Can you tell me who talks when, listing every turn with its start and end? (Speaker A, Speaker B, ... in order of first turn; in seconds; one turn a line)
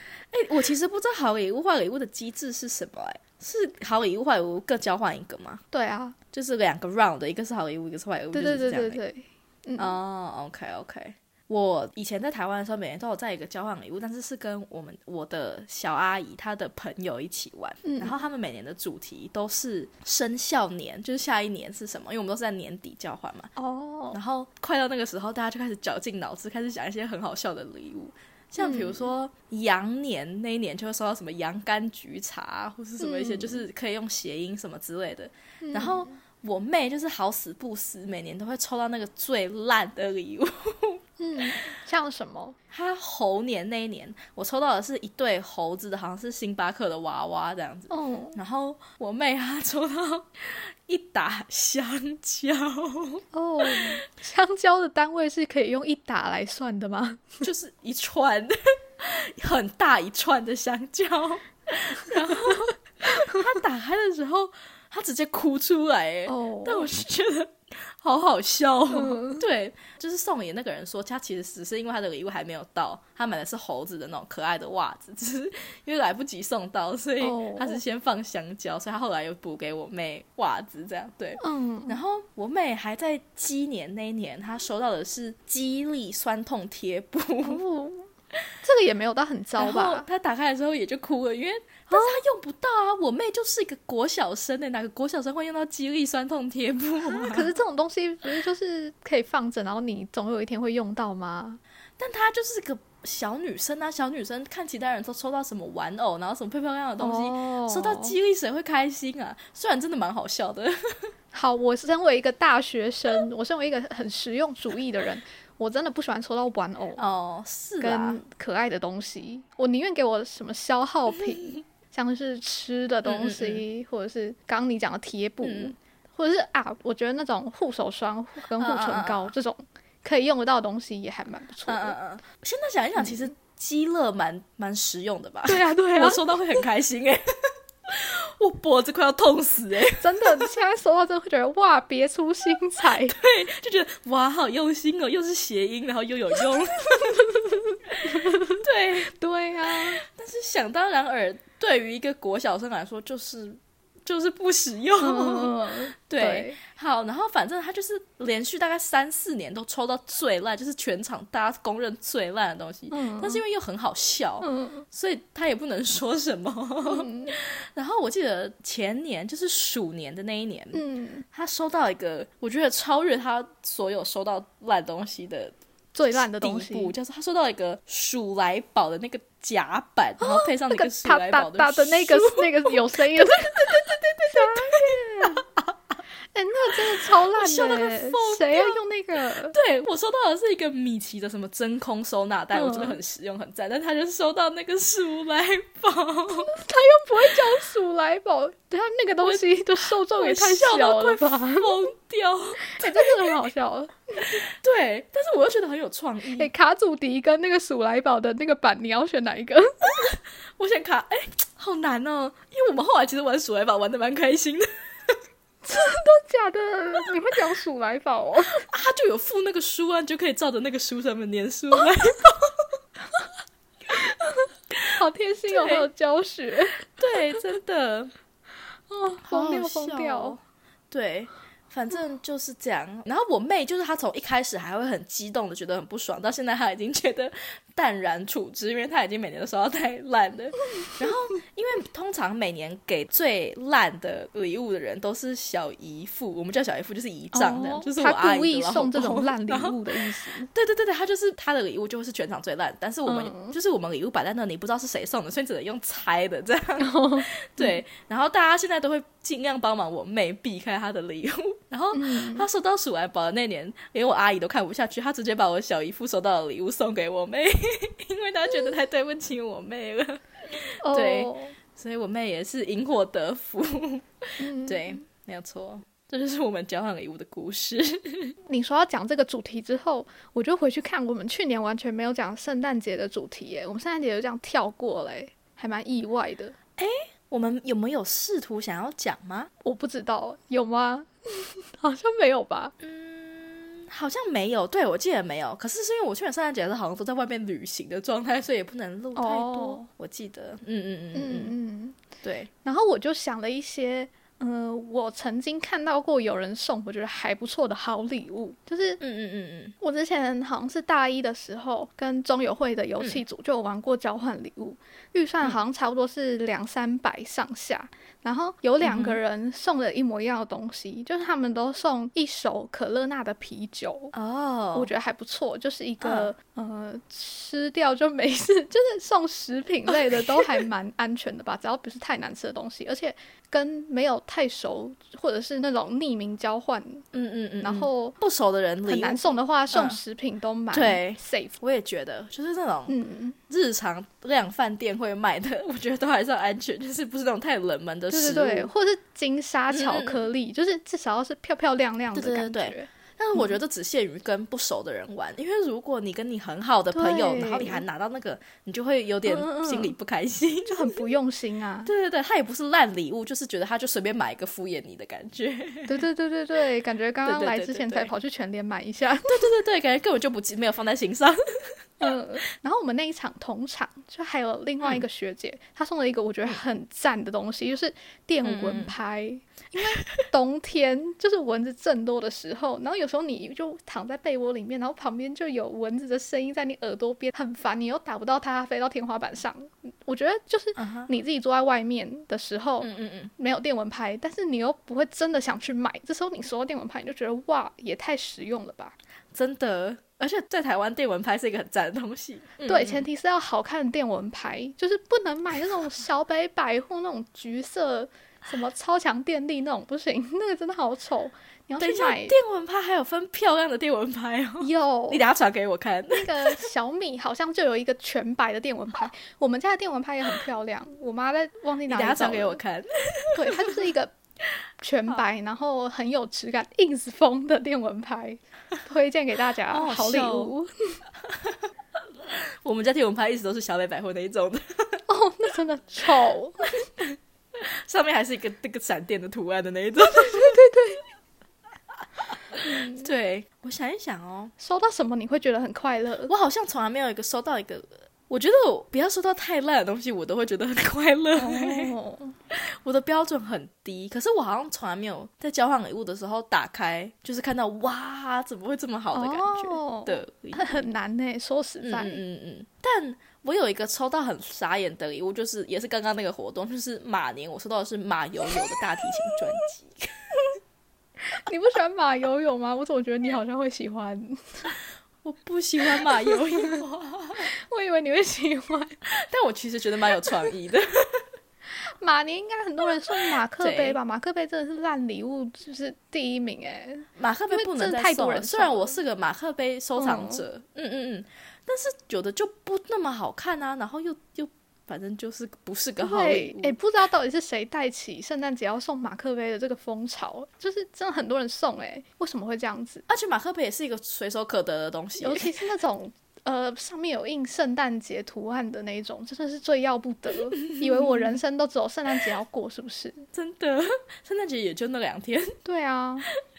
Speaker A: 0.3-5.6
Speaker B: 5.7-6.2
Speaker A: 6.3-9.0
Speaker B: 8.3-10.0
Speaker A: 9.8-23.5
Speaker B: 17.8-18.2
Speaker B: 23.6-24.2
Speaker A: 24.1-41.5
Speaker B: 28.6-29.1
Speaker B: 33.0-33.6
Speaker B: 35.6-36.1
Speaker B: 41.2-42.6
Speaker A: 42.7-54.0
Speaker B: 47.9-48.4
Speaker B: 53.3-57.4
Speaker A: 57.4-87.6
Speaker B: 66.3-66.9
Speaker B: 68.9-69.4
Speaker B: 77.2-77.8
Speaker B: 81.4-82.0
Speaker B: 87.4-88.1
Speaker B: 88.6-90.0
Speaker A: 89.6-97.5
Speaker B: 91.9-92.2
Speaker B: 97.0-101.6
Speaker A: 102.0-111.1
Speaker B: 107.0-108.2
Speaker B: 111.3-117.0
Speaker A: 117.0-118.2
Speaker B: 117.8-132.0
Speaker A: 123.0-123.6
Speaker A: 125.4-125.7
Speaker A: 128.6-129.3
Speaker A: 131.7-140.5
Speaker B: 133.0-133.3
Speaker B: 135.4-136.2
Speaker B: 140.0-143.2
Speaker A: 142.8-149.1
Speaker B: 148.0-150.0
Speaker A: 149.7-170.8
Speaker B: 155.0-156.6
Speaker B: 162.9-163.4
Speaker B: 164.4-164.8
Speaker B: 166.8-167.3
Speaker B: 170.7-171.2
Speaker A: 171.3-175.5
Speaker B: 175.9-176.9
Speaker A: 176.1-185.7
Speaker B: 180.2-185.4
Speaker B: 186.3-189.6
Speaker A: 186.7-196.5
Speaker B: 192.5-193.0
Speaker B: 196.4-201.8
Speaker A: 199.2-203.3
Speaker B: 202.6-204.4
Speaker A: 204.3-206.5
Speaker B: 206.3-210.0
Speaker A: 209.9-215.2
Speaker B: 215.6-218.6
Speaker A: 218.5-222.6
Speaker B: 223.9-224.4
Speaker B: 224.9-226.9
Speaker A: 225.5-225.9
Speaker A: 227.0-228.1
Speaker B: 228.9-230.4
Speaker A: 229.2-230.4
Speaker A: 230.9-278.3
Speaker B: 247.3-250.5
Speaker B: 253.1-253.5
Speaker B: 256.8-257.8
Speaker B: 261.9-262.4
Speaker B: 270.8-271.6
Speaker B: 274.4-275.0
Speaker B: 278.5-286.5
Speaker A: 286.8-289.5
Speaker B: 289.6-292.7
Speaker A: 292.8-301.5
Speaker B: 299.1-299.9
Speaker B: 301.1-302.0
Speaker A: 302.2-302.5
Speaker B: 302.6-309.0
Speaker A: 309.0-309.7
Speaker B: 309.8-324.1
Speaker A: 318.8-319.2
Speaker A: 324.1-324.9
Speaker B: 324.7-337.1
Speaker A: 326.0-326.3
Speaker A: 329.9-330.5
Speaker A: 337.1-340.0
Speaker B: 337.6-338.1
Speaker B: 338.9-341.6
Speaker A: 340.7-342.9
Speaker B: 342.9-343.4
Speaker A: 343.5-348.7
Speaker B: 348.1-353.4
Speaker A: 349.7-350.3
Speaker A: 352.1-361.0
Speaker B: 356.9-357.8
Speaker B: 359.2-359.9
Speaker B: 360.7-361.9
Speaker A: 361.8-366.0
Speaker B: 365.9-369.5
Speaker A: 367.2-368.1
Speaker A: 369.2-371.8
Speaker B: 372.0-398.9
Speaker A: 378.4-378.9
Speaker A: 390.8-391.1
Speaker A: 392.8-393.3
Speaker A: 399.3-403.1
Speaker B: 402.6-412.4
Speaker A: 411.8-416.6
Speaker B: 414.6-415.2
Speaker B: 416.1-422.6
Speaker A: 421.9-423.7
Speaker B: 423.3-424.1
Speaker B: 424.8-431.0
Speaker A: 429.7-430.5
Speaker A: 432.2-435.0
Speaker B: 435.1-436.9
Speaker A: 437.5-440.6
Speaker B: 440.0-441.0
Speaker B: 442.6-443.1
Speaker A: 442.6-444.5
Speaker B: 444.6-446.3
Speaker A: 446.3-451.9
Speaker B: 451.3-452.3
Speaker A: 452.5-460.8
Speaker B: 459.1-462.2
Speaker A: 461.8-470.1
Speaker B: 471.3-474.7
Speaker A: 475.2-477.5
Speaker B: 476.0-476.8
Speaker B: 477.4-479.0
Speaker A: 479.1-481.3
Speaker B: 482.0-489.0
Speaker A: 483.6-484.0
Speaker A: 487.2-496.8
Speaker B: 490.0-490.4
Speaker B: 496.0-503.0
Speaker A: 503.1-505.6
Speaker B: 505.2-513.2
Speaker A: 510.8-511.3
Speaker A: 513.3-515.6
Speaker B: 515.6-516.3